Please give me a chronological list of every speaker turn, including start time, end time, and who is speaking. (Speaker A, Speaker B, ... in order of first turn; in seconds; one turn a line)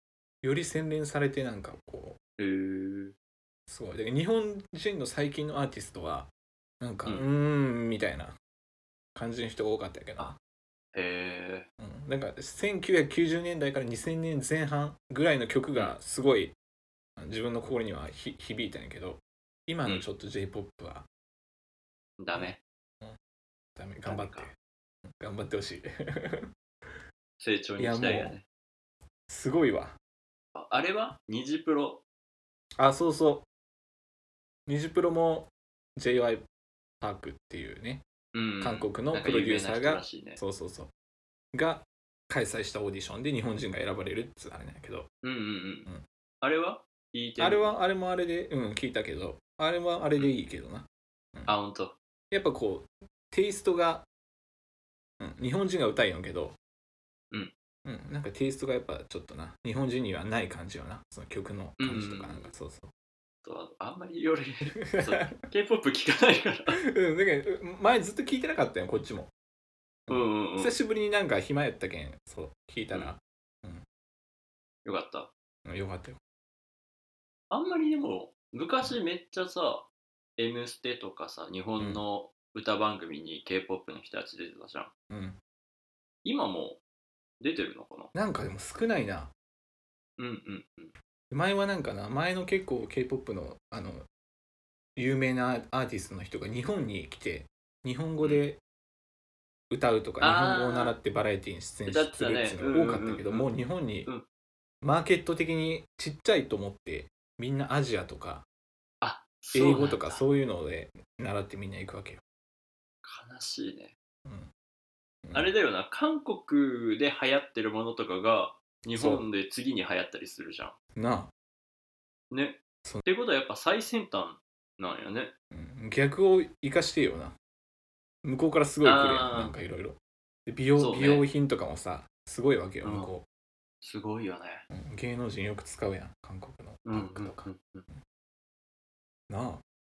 Speaker A: 0.4-2.2
Speaker B: 2.4-3.2
Speaker A: 3.7-8.4
Speaker A: 9.2-10.4
Speaker B: 10.9-11.7
Speaker A: 11.8-16.6
Speaker A: 17.2-21.1
Speaker B: 22.2-22.6
Speaker A: 22.4-23.2
Speaker A: 23.8-24.6
Speaker B: 24.1-24.5
Speaker A: 25.1-26.5
Speaker B: 27.4-28.4
Speaker A: 27.8-28.4
Speaker A: 29.3-30.0
Speaker B: 30.6-32.0
Speaker A: 32.8-33.5
Speaker A: 34.7-36.5
Speaker A: 37.0-38.0
Speaker B: 38.3-40.4
Speaker A: 38.6-40.9
Speaker A: 41.5-45.1
Speaker B: 45.2-45.9
Speaker B: 46.4-47.8
Speaker A: 47.4-51.5
Speaker B: 51.5-52.0
Speaker A: 52.3-54.1
Speaker A: 55.2-56.6
Speaker A: 57.9-62.9
Speaker B: 61.8-62.5
Speaker B: 63.4-66.8
Speaker A: 64.9-65.3
Speaker A: 66.8-69.3
Speaker A: 70.1-73.8
Speaker B: 70.1-70.8
Speaker B: 74.8-75.3
Speaker A: 75.7-76.2
Speaker B: 77.5-84.9
Speaker A: 85.1-85.4
Speaker B: 86.2-86.8
Speaker B: 87.4-88.1
Speaker A: 88.1-89.3
Speaker B: 90.2-91.0
Speaker A: 91.3-94.1
Speaker A: 95.0-98.6
Speaker A: 99.7-104.1
Speaker B: 100.2-101.0
Speaker B: 101.9-103.5
Speaker A: 104.8-108.5
Speaker B: 109.0-110.2
Speaker A: 109.5-112.2
Speaker B: 113.0-114.0
Speaker A: 114.2-114.5
Speaker A: 115.2-115.5
Speaker B: 115.3-120.8
Speaker A: 119.0-119.2
Speaker A: 121.0-121.3
Speaker B: 122.3-125.3
Speaker A: 125.5-127.4
Speaker A: 128.2-133.2
Speaker B: 128.8-129.6
Speaker B: 130.8-131.3
Speaker B: 132.8-133.1
Speaker B: 133.8-134.7
Speaker A: 134.7-138.0
Speaker B: 136.8-137.9
Speaker A: 139.3-139.6